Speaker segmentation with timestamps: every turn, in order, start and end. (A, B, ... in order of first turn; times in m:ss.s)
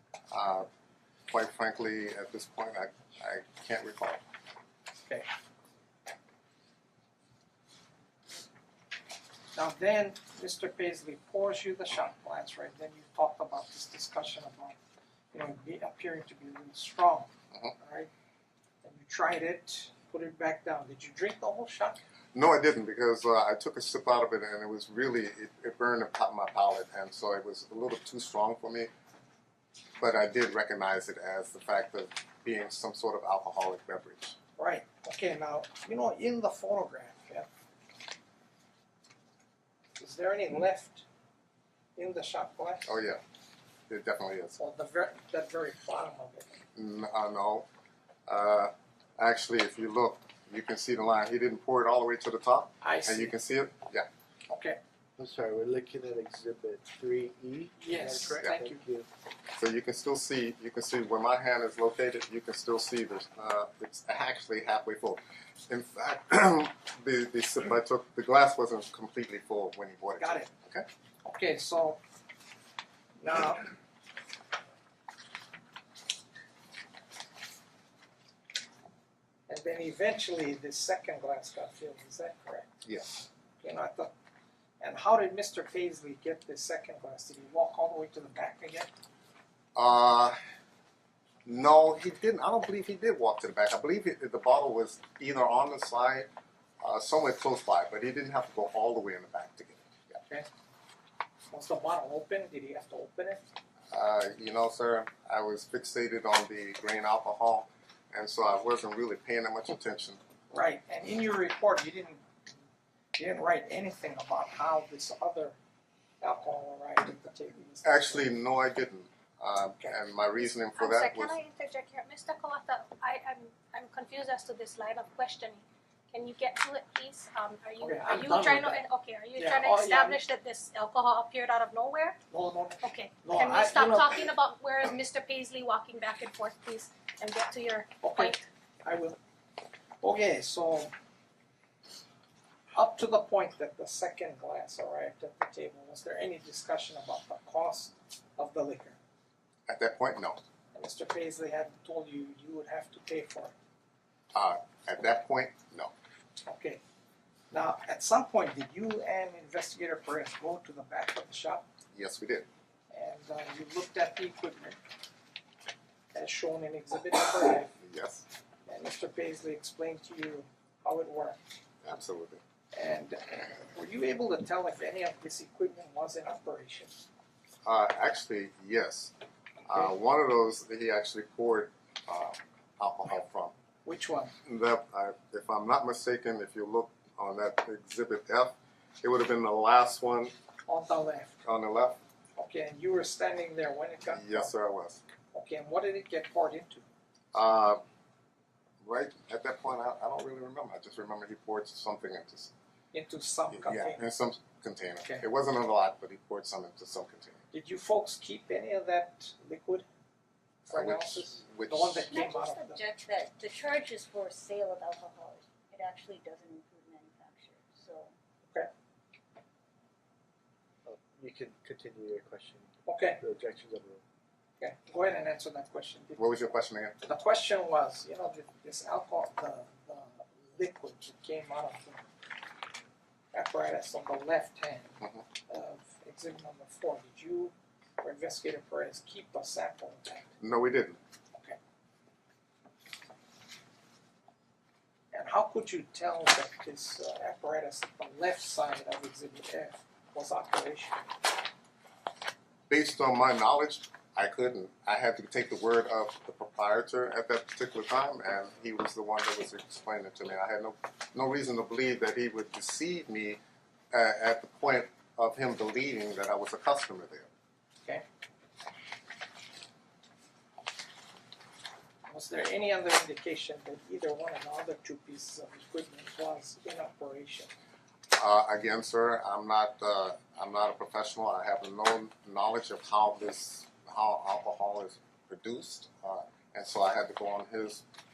0:00.3-0:00.7 A
0:01.3-0:04.2 A
0:09.5-0:14.8 B
0:15.3-0:18.1 B
0:18.8-0:22.0 B
0:22.3-0:28.9 A
0:30.0-0:34.4 A
0:34.6-0:37.5 B
0:40.0-0:41.1 B
0:42.0-0:42.9 B
0:42.9-0:43.2 A
0:43.9-0:44.6 A
0:44.6-0:46.6 B
0:46.8-0:47.7 A
0:48.3-0:54.1 A
0:52.8-0:53.3 B
0:54.5-0:54.8 B
0:55.2-0:59.1 C
0:57.8-0:58.8 B
0:59.6-1:10.8 A
1:10.2-1:10.5 B
1:11.2-1:12.0 B
1:13.2-1:13.7 B
1:19.5-1:22.7 B
1:22.8-1:23.2 A
1:23.6-1:24.1 B
1:24.8-1:28.9 B
1:29.8-1:30.4 A
1:31.4-1:36.3 A
1:36.8-1:40.2 A
1:41.5-1:43.4 B
1:43.9-1:50.2 A
1:50.5-1:52.3 B
1:53.2-1:55.6 B
1:56.2-1:58.3 B
1:57.8-2:01.4 A
2:00.7-2:12.2 D
2:07.8-2:08.8 B
2:09.4-2:10.2 B
2:12.3-2:14.2 B
2:12.8-2:18.4 D
2:18.0-2:19.2 B
2:20.0-2:20.9 B
2:22.7-2:29.0 B
2:29.7-2:30.4 A
2:30.7-2:33.5 B
2:34.3-2:35.9 A
2:36.5-2:36.8 B
2:37.5-2:41.7 B
2:41.9-2:42.5 A
2:42.9-2:44.8 B
2:46.1-2:47.7 B
2:47.8-2:48.2 A
2:48.7-2:51.4 B
2:51.8-2:52.4 A
2:52.7-2:57.0 B
2:57.6-2:59.1 A
2:59.7-3:03.5 A
3:03.8-3:04.4 B
3:04.4-3:10.3 A
3:10.7-3:11.4 B
3:11.4-3:12.0 A
3:12.4-3:14.5 B
3:14.1-3:15.0 A
3:15.3-3:16.9 B
3:17.3-3:17.8 A
3:18.8-3:22.5 A
3:22.9-3:24.0 B
3:23.5-3:27.4 A
3:27.5-3:29.8 B
3:30.7-3:32.8 B
3:30.7-3:32.2 A
3:32.1-3:38.2 E
3:40.9-3:44.0 C
3:42.9-3:43.2 B
3:44.6-3:46.5 B
3:46.2-3:47.0 A
3:47.0-3:52.1 B
3:53.3-4:00.3 B
4:00.4-4:01.0 A
4:05.1-4:11.1 B
4:12.7-4:23.4 A
4:23.9-4:27.3 A
4:32.1-4:37.5 B
4:38.2-4:47.8 A